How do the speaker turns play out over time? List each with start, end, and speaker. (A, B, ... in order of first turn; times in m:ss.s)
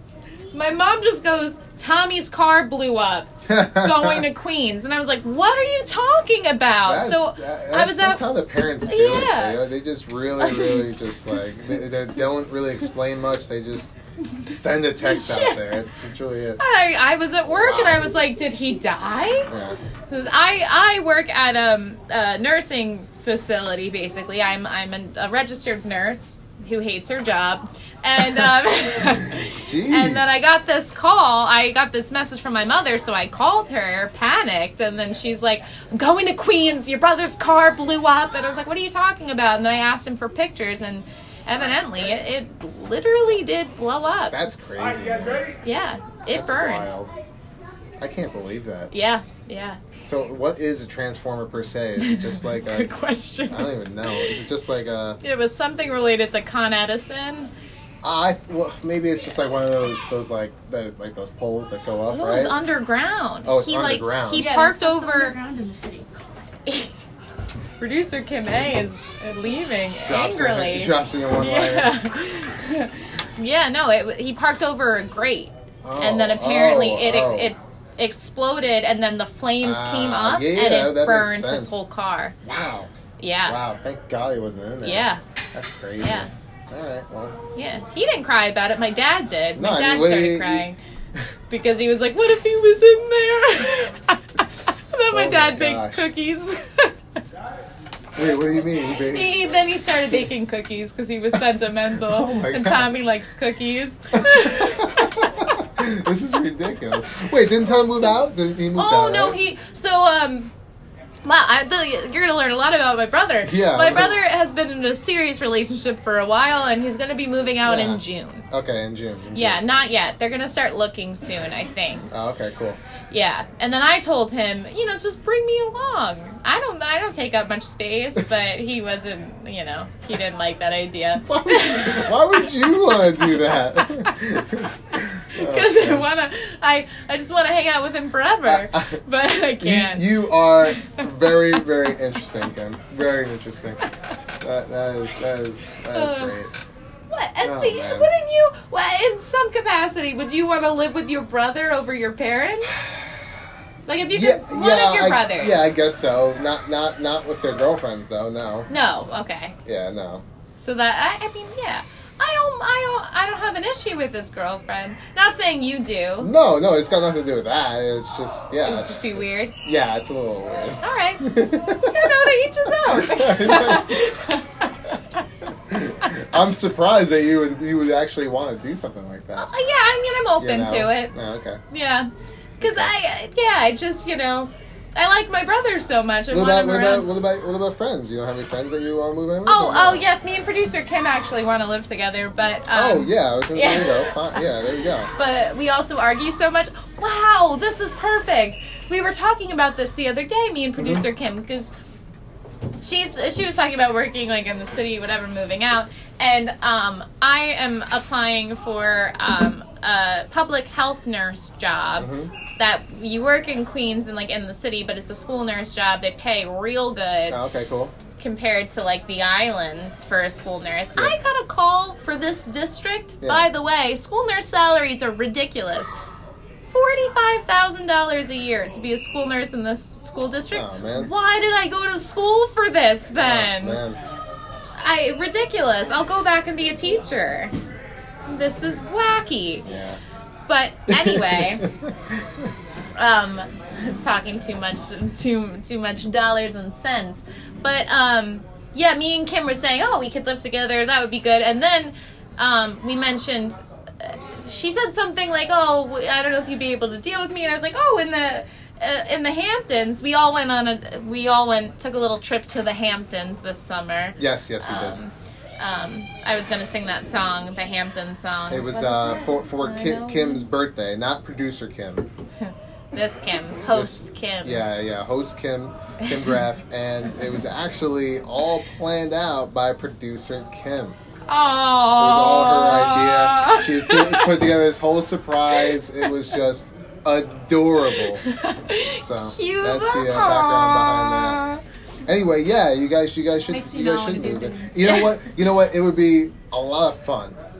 0:00.5-0:08.2 A
0:03.5-0:04.3 B
0:06.8-0:16.6 B
0:08.8-0:09.6 A
0:10.4-0:10.8 A
0:15.0-0:15.6 A
0:16.6-0:19.5 A
0:17.5-0:18.1 B
0:19.5-0:19.8 B
0:20.1-0:44.4 A
0:29.1-0:30.4 B
0:44.3-0:45.6 B
0:45.6-0:46.9 A
0:46.3-0:47.1 B
0:48.0-0:48.9 B
0:48.9-0:49.8 A
0:50.0-0:52.9 B
0:52.0-0:54.4 A
0:53.5-0:55.2 B
0:55.2-0:57.5 A
0:58.0-1:02.6 B
1:02.1-1:05.4 A
1:03.4-1:04.5 B
1:04.3-1:06.2 C
1:06.7-1:06.9 A
1:07.8-1:22.4 A
1:10.0-1:11.9 B
1:15.8-1:17.5 B
1:19.6-1:21.8 B
1:22.4-1:22.9 B
1:23.2-1:23.6 A
1:23.4-1:27.4 B
1:24.8-1:25.2 A
1:26.0-1:26.3 A
1:27.6-1:30.8 A
1:29.6-1:31.2 B
1:31.5-1:34.2 A
1:34.9-1:36.9 A
1:35.1-1:36.1 B
1:38.1-1:39.3 B
1:39.1-1:45.4 A
1:42.0-1:42.9 B
1:44.1-1:49.4 B
1:47.6-1:50.5 A
1:51.2-1:58.4 A
1:53.4-1:54.2 B
1:57.6-1:59.6 B
1:59.3-2:02.1 A
2:02.1-2:02.8 B
2:03.1-2:12.5 A
2:11.2-2:16.1 B
2:13.5-2:14.1 A
2:15.3-2:21.0 A
2:18.4-2:19.0 B
2:19.6-2:23.8 B
2:24.4-2:26.5 B
2:25.9-2:26.4 A
2:27.1-2:32.8 A
2:27.4-2:28.1 B
2:33.8-2:35.8 A
2:34.1-2:38.7 B
2:38.7-2:39.6 A
2:39.6-2:40.2 B
2:40.5-2:46.3 A
2:46.2-2:54.0 B
2:48.6-2:49.5 A
2:50.8-2:51.2 A
2:51.8-2:55.0 A
2:55.7-2:59.5 B
2:59.4-3:01.1 A
3:00.4-3:01.6 B
3:01.7-3:07.1 A
3:02.6-3:02.9 B
3:06.3-3:10.0 B
3:09.4-3:14.4 A
3:12.7-3:15.1 B
3:15.1-3:21.7 A
3:20.8-3:21.0 B
3:22.8-3:37.4 A
3:32.0-3:32.3 B
3:37.3-3:37.9 B
3:38.2-3:45.9 A
3:43.2-3:43.5 B
3:46.7-3:53.8 A
3:50.5-3:51.1 B
3:53.1-3:54.0 B
3:54.8-3:57.5 A
3:58.3-3:59.6 A
3:59.6-4:00.0 B
4:00.5-4:01.6 A
4:00.9-4:02.5 B
4:03.0-4:30.4 A
4:24.2-4:25.0 B
4:28.5-4:32.1 B
4:32.4-4:34.7 A
4:33.7-4:41.0 B
4:41.3-4:44.4 A
4:42.0-4:48.2 B
4:48.2-4:51.6 A
4:48.9-4:51.4 B
4:52.0-4:57.4 B
4:53.5-4:55.1 C